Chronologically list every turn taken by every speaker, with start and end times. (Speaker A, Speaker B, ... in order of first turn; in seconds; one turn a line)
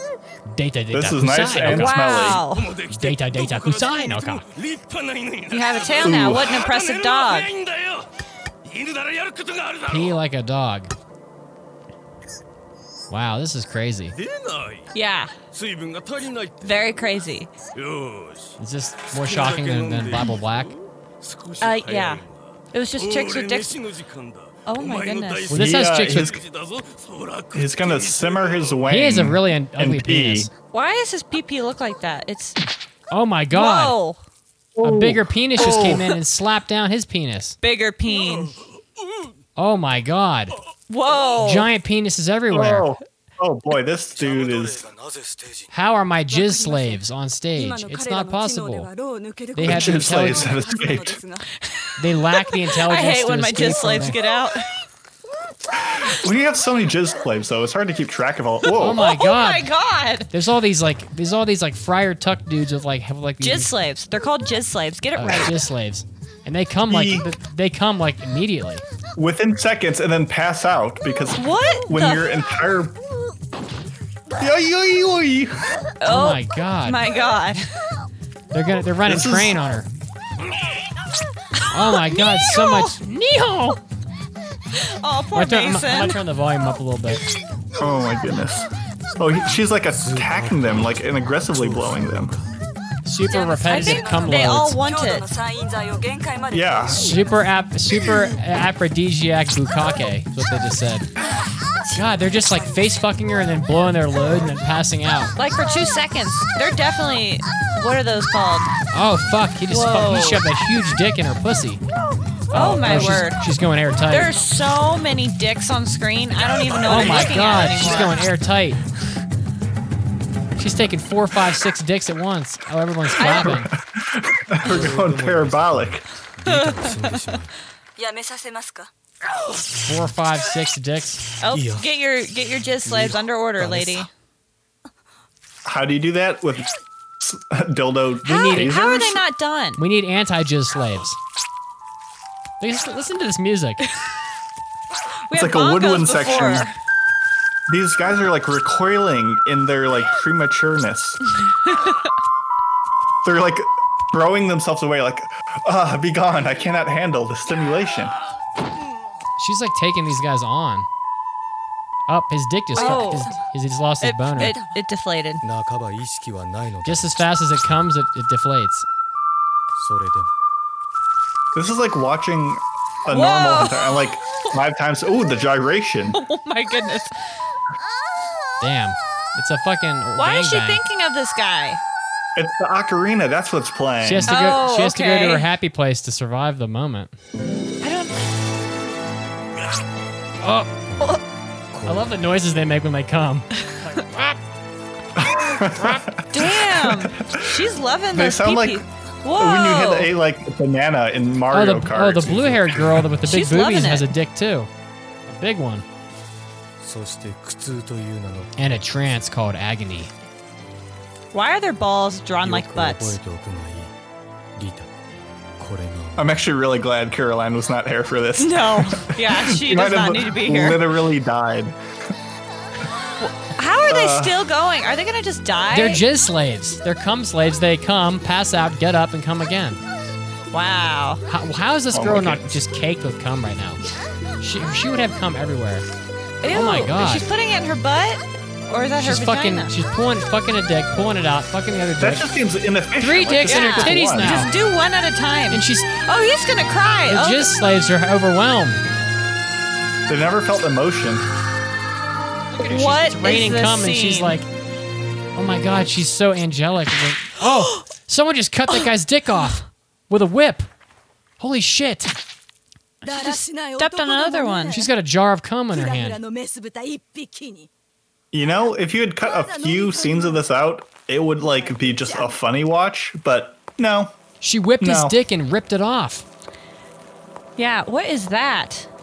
Speaker A: 0.5-2.0
Speaker B: 0.9-2.5
Speaker C: 1.6-2.7
Speaker D: 2.3-8.1
Speaker A: 2.9-4.5
Speaker C: 5.5-7.5
Speaker B: 6.0-6.6
Speaker D: 8.6-10.2
Speaker A: 9.9-10.9
Speaker A: 13.1-14.2
Speaker D: 14.1-14.9
Speaker C: 14.9-15.3
Speaker D: 15.5-17.1
Speaker C: 16.6-17.5
Speaker D: 17.7-18.6
Speaker A: 18.6-20.7
Speaker D: 19.1-28.9
Speaker C: 21.6-23.8
Speaker C: 24.7-25.5
Speaker A: 25.5-26.4
Speaker B: 25.5-26.4
Speaker B: 27.5-30.5
Speaker A: 28.9-30.5
Speaker C: 30.7-32.6
Speaker A: 33.1-34.0
Speaker C: 33.5-34.2
Speaker B: 34.8-36.1
Speaker A: 34.8-37.6
Speaker C: 37.6-38.6
Speaker D: 38.1-39.3
Speaker A: 39.6-40.6
Speaker C: 40.9-41.7
Speaker A: 41.4-42.9
Speaker B: 42.5-44.8
Speaker E: 44.1-45.7
Speaker A: 45.7-48.9
Speaker F: 48.1-48.6
Speaker A: 49.5-50.6
Speaker B: 49.6-51.2
Speaker A: 52.0-54.2
Speaker C: 52.4-54.7
Speaker B: 55.8-59.0
Speaker C: 58.6-60.3
Speaker A: 58.8-59.7
Speaker A: 60.3-63.7
Speaker C: 63.4-65.5
Speaker A: 65.2-68.8
Speaker B: 66.9-67.3
Speaker B: 69.2-73.0
Speaker C: 71.4-72.2
Speaker B: 74.4-75.7
Speaker C: 76.0-77.8
Speaker A: 76.1-77.0
Speaker A: 78.5-79.9
Speaker B: 79.1-79.6
Speaker A: 81.7-83.8
Speaker C: 81.9-83.0
Speaker C: 84.7-86.2
Speaker A: 85.3-87.2
Speaker B: 87.8-92.4
Speaker E: 89.9-92.5
Speaker A: 93.0-94.8
Speaker F: 93.3-93.7
Speaker C: 93.5-95.3
Speaker F: 94.2-96.5
Speaker B: 96.5-97.2
Speaker A: 96.9-101.1
Speaker A: 101.9-105.3
Speaker C: 105.4-108.7
Speaker A: 108.9-111.8
Speaker C: 109.7-110.5
Speaker C: 112.5-113.4
Speaker A: 112.5-114.3
Speaker C: 114.1-118.2
Speaker A: 116.8-118.8
Speaker A: 120.6-123.7
Speaker C: 123.2-123.6
Speaker B: 123.2-126.0
Speaker E: 124.6-127.5
Speaker C: 126.4-127.4
Speaker A: 129.8-131.2
Speaker C: 131.4-134.1
Speaker E: 131.5-131.9
Speaker E: 132.8-134.1
Speaker B: 135.7-136.7
Speaker B: 137.2-139.2
Speaker C: 138.3-139.8
Speaker A: 138.3-138.7
Speaker A: 139.8-141.2
Speaker A: 142.6-143.9
Speaker C: 145.3-146.8
Speaker B: 145.3-146.7
Speaker B: 147.7-151.2
Speaker C: 151.7-151.9
Speaker B: 153.2-158.2
Speaker A: 159.4-160.9
Speaker A: 162.1-164.6
Speaker C: 162.8-163.4
Speaker G: 162.8-163.3
Speaker C: 164.0-165.4
Speaker E: 165.4-167.8
Speaker A: 166.8-168.9
Speaker E: 169.7-170.3
Speaker B: 171.5-176.2
Speaker C: 173.1-174.1
Speaker C: 176.1-177.2
Speaker A: 178.6-180.8
Speaker C: 180.2-181.8
Speaker B: 182.4-184.3
Speaker A: 184.0-187.1
Speaker C: 184.3-185.5
Speaker C: 187.8-188.3
Speaker A: 190.4-190.7
Speaker E: 190.9-191.2
Speaker E: 191.7-192.3
Speaker A: 191.8-194.4
Speaker B: 195.2-197.5
Speaker A: 195.8-196.1
Speaker C: 196.3-200.1
Speaker B: 198.1-198.8
Speaker B: 199.4-203.1
Speaker A: 201.5-204.7
Speaker C: 203.3-204.1
Speaker A: 205.3-205.8
Speaker E: 206.8-208.8
Speaker A: 208.6-210.1
Speaker C: 211.3-213.2
Speaker E: 212.4-213.9
Speaker E: 214.6-214.9
Speaker E: 215.6-216.3
Speaker B: 216.2-221.8
Speaker C: 218.4-220.8
Speaker C: 223.2-226.0
Speaker B: 223.9-224.3
Speaker A: 225.7-229.8
Speaker C: 230.5-231.2
Speaker A: 231.3-233.8
Speaker B: 231.9-232.6
Speaker A: 234.4-235.9
Speaker C: 236.4-239.7
Speaker A: 236.5-237.3
Speaker A: 239.0-242.3
Speaker B: 242.0-244.5
Speaker A: 243.0-244.5
Speaker C: 243.5-247.5
Speaker A: 245.5-245.9
Speaker A: 247.1-248.8
Speaker B: 250.1-251.3
Speaker A: 252.5-254.5
Speaker C: 252.6-254.4
Speaker A: 255.3-260.7
Speaker A: 261.4-262.1
Speaker G: 263.0-264.9
Speaker C: 263.1-264.9
Speaker A: 264.7-266.2
Speaker G: 265.7-267.7
Speaker B: 268.3-274.1
Speaker G: 268.4-270.5
Speaker G: 271.4-272.4
Speaker A: 274.4-276.2
Speaker B: 274.8-275.2
Speaker C: 277.6-278.9